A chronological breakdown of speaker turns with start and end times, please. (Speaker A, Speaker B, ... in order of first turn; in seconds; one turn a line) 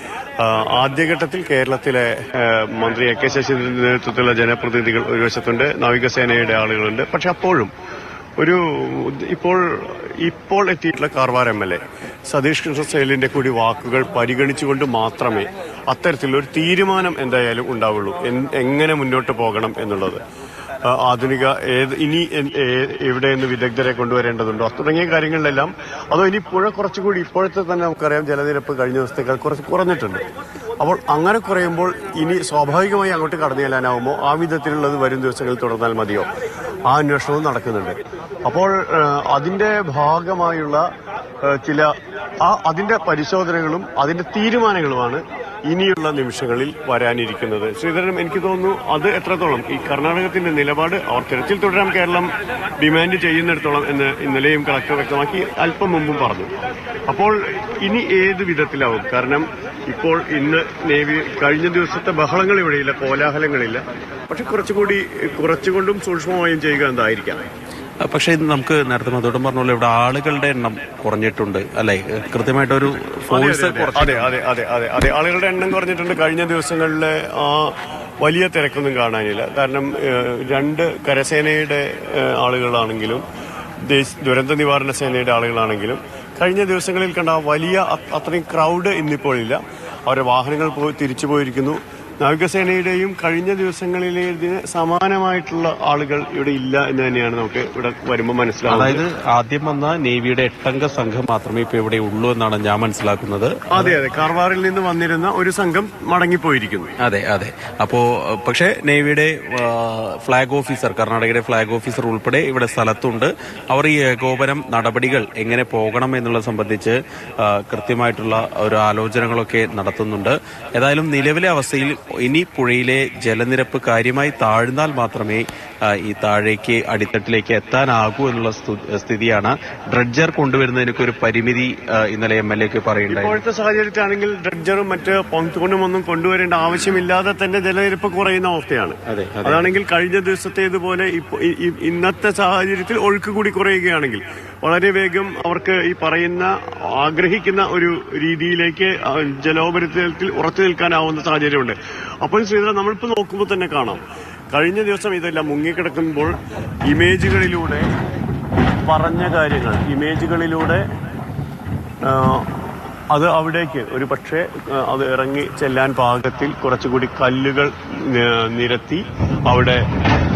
Speaker A: 0.4-7.7
Speaker A: 8.4-20.2
Speaker A: 20.9-30.2
Speaker A: 30.8-36.3
Speaker A: 36.9-40.8
Speaker A: 41.5-41.9
Speaker A: 42.4-56.5
Speaker A: 57.1-67.5
Speaker B: 68.0-74.3
Speaker A: 73.3-83.2
Speaker A: 83.9-99.0
Speaker B: 98.7-104.0
Speaker A: 103.7-106.9
Speaker B: 107.0-133.4
Speaker A: 133.1-154.0
Speaker B: 139.1-139.7
Speaker A: 154.5-156.4
Speaker A: 156.9-157.9
Speaker A: 158.9-160.8
Speaker A: 162.1-162.5
Speaker A: 163.1-169.8